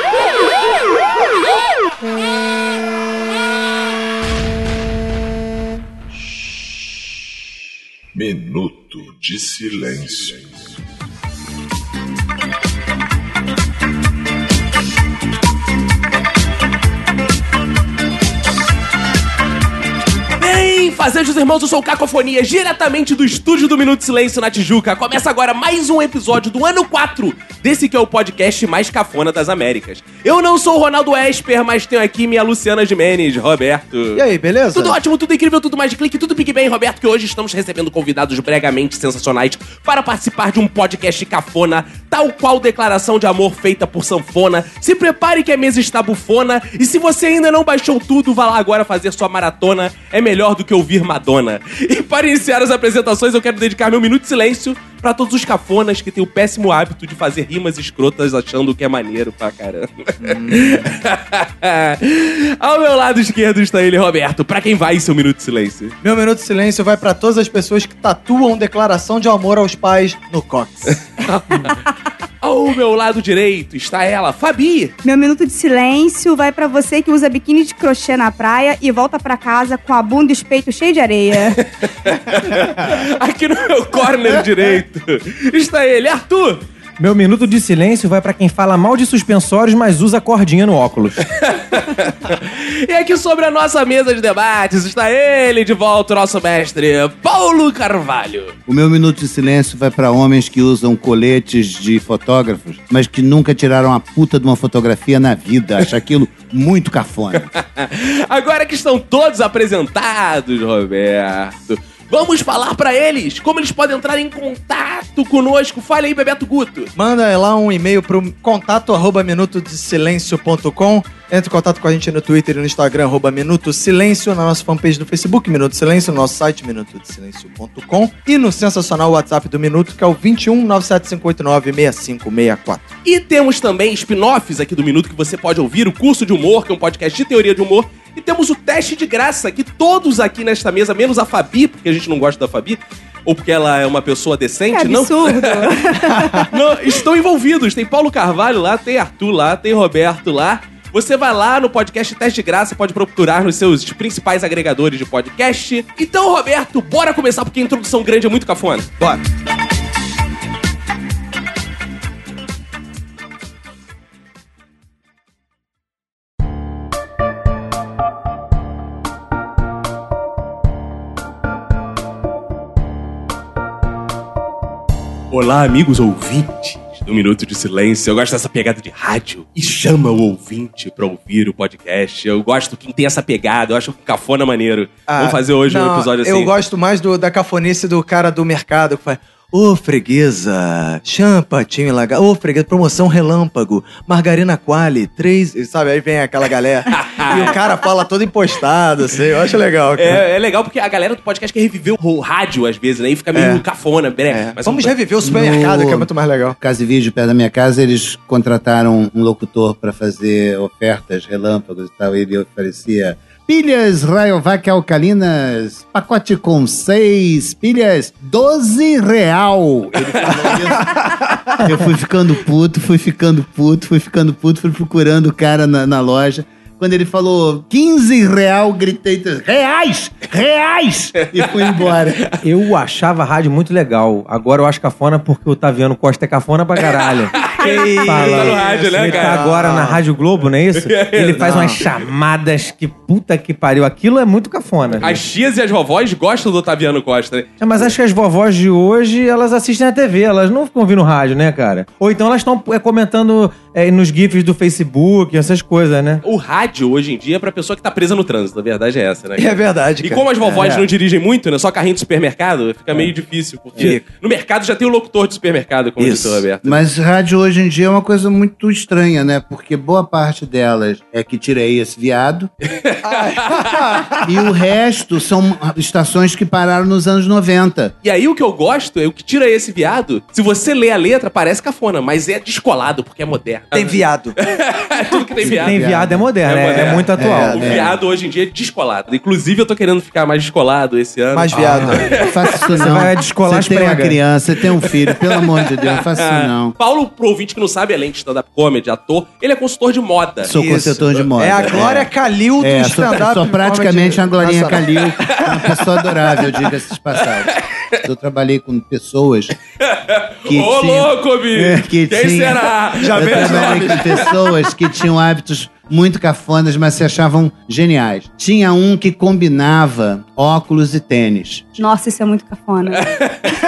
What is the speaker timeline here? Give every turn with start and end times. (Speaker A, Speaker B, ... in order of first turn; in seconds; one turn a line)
Speaker A: 8.1-10.8
Speaker B: 20.4-66.0
Speaker C: 34.1-35.0
Speaker C: 60.2-61.0
Speaker C: 66.0-71.1
Speaker B: 71.2-71.8
Speaker B: 72.4-75.0
Speaker D: 75.0-81.6
Speaker B: 81.6-86.6
Speaker E: 87.0-91.2
Speaker B: 91.3-98.5
Speaker F: 98.7-107.5
Speaker B: 107.4-116.9
Speaker C: 117.0-132.9
Speaker B: 133.1-145.7
Speaker D: 144.7-146.5
Speaker B: 146.5-158.9
Speaker B: 175.3-186.5
Speaker C: 185.1-200.2
Speaker B: 196.9-197.6
Speaker B: 199.9-204.9
Speaker C: 203.3-203.6
Speaker C: 204.3-206.6
Speaker F: 205.2-232.3
Speaker C: 220.8-221.6
Speaker E: 232.4-245.2
Speaker B: 237.4-239.6
Speaker C: 237.6-240.0
Speaker B: 240.8-242.0
Speaker C: 241.2-241.8
Speaker B: 245.0-247.9
Speaker E: 247.6-256.2
Speaker B: 256.2-266.8
Speaker C: 259.4-260.9
Speaker C: 263.8-264.0
Speaker C: 266.0-266.4
Speaker F: 266.6-272.5
Speaker C: 273.0-274.3
Speaker F: 274.2-277.9
Speaker B: 278.0-285.8
Speaker C: 283.7-284.4
Speaker F: 285.4-286.3
Speaker E: 285.6-287.6
Speaker B: 286.4-292.6
Speaker F: 287.1-287.9
Speaker C: 287.2-287.8
Speaker C: 291.3-292.1
Speaker E: 291.5-292.1
Speaker F: 292.1-296.8
Speaker E: 292.8-294.2
Speaker B: 294.8-300.5
Speaker F: 300.4-309.6
Speaker C: 300.5-305.4
Speaker B: 307.3-308.0
Speaker B: 309.9-314.3
Speaker F: 310.4-321.8
Speaker C: 313.0-314.2
Speaker D: 321.8-323.1
Speaker B: 323.0-323.4